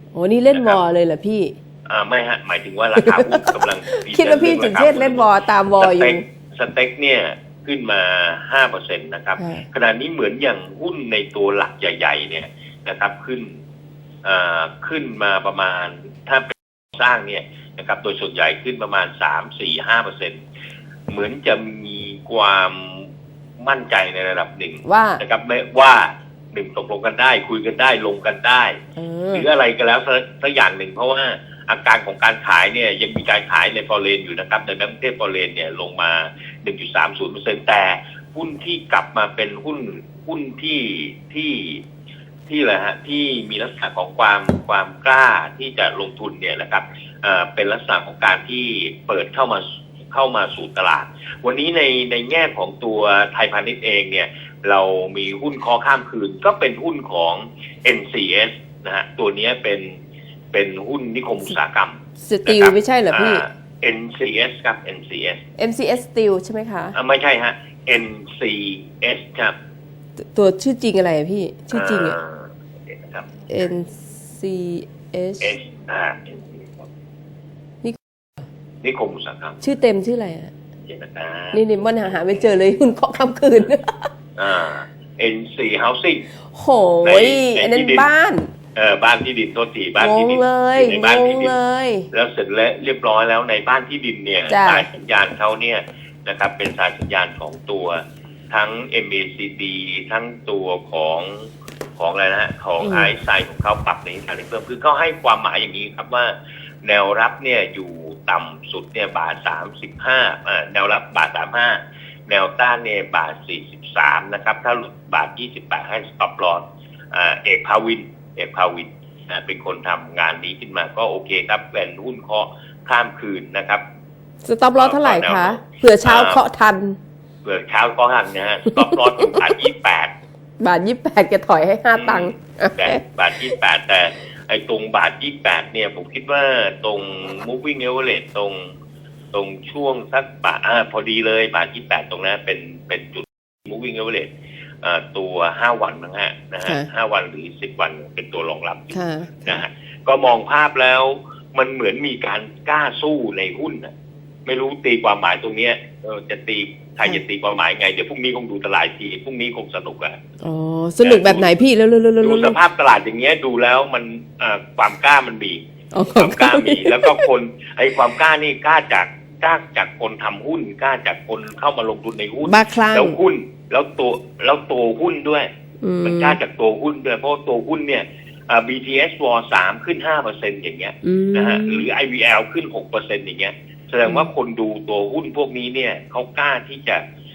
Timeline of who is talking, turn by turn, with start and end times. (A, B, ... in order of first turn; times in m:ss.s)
0:00.1-0:01.5 A
0:00.5-0:00.8 B
0:01.9-0:13.6 B
0:02.9-0:06.2 A
0:09.4-0:09.6 A
0:14.2-0:20.4 B
0:21.1-0:23.1 B
0:23.6-0:28.8 B
0:24.8-0:25.2 A
0:29.0-0:29.4 A
0:29.3-0:41.8 B
0:42.5-1:00.0 B
1:00.5-1:05.4 B
1:02.2-1:03.4 A
1:05.6-1:07.0 A
1:06.9-1:09.5 B
1:10.3-1:12.2 A
1:11.7-1:13.3 B
1:13.5-1:15.5 A
1:15.4-1:16.8 B
1:18.8-1:19.6 B
1:19.6-1:20.5 A
1:20.8-1:21.6 B
1:21.5-1:24.1 A
1:24.4-1:26.2 B
1:26.5-1:28.5 A
1:27.0-1:28.1 B
1:28.7-1:31.6 B
1:30.0-1:32.1 A
1:32.1-2:03.8 B
1:34.5-1:34.8 A
1:42.8-1:43.1 A
2:04.4-2:07.0 A
2:04.8-2:06.4 B
2:07.4-2:10.1 B
2:08.7-2:09.5 A
2:10.6-2:13.0 A
2:11.9-2:18.7 B
2:19.3-2:24.3 B
2:24.8-2:33.9 B
2:28.9-2:29.6 A
2:34.4-2:40.2 B
2:40.4-2:42.6 A
2:41.0-2:41.5 B
2:42.2-2:45.6 B
2:45.9-2:47.2 A
2:46.1-2:55.5 B
2:52.4-2:53.2 A
2:55.8-2:56.4 A
2:56.0-3:07.0 B
3:01.0-3:01.9 A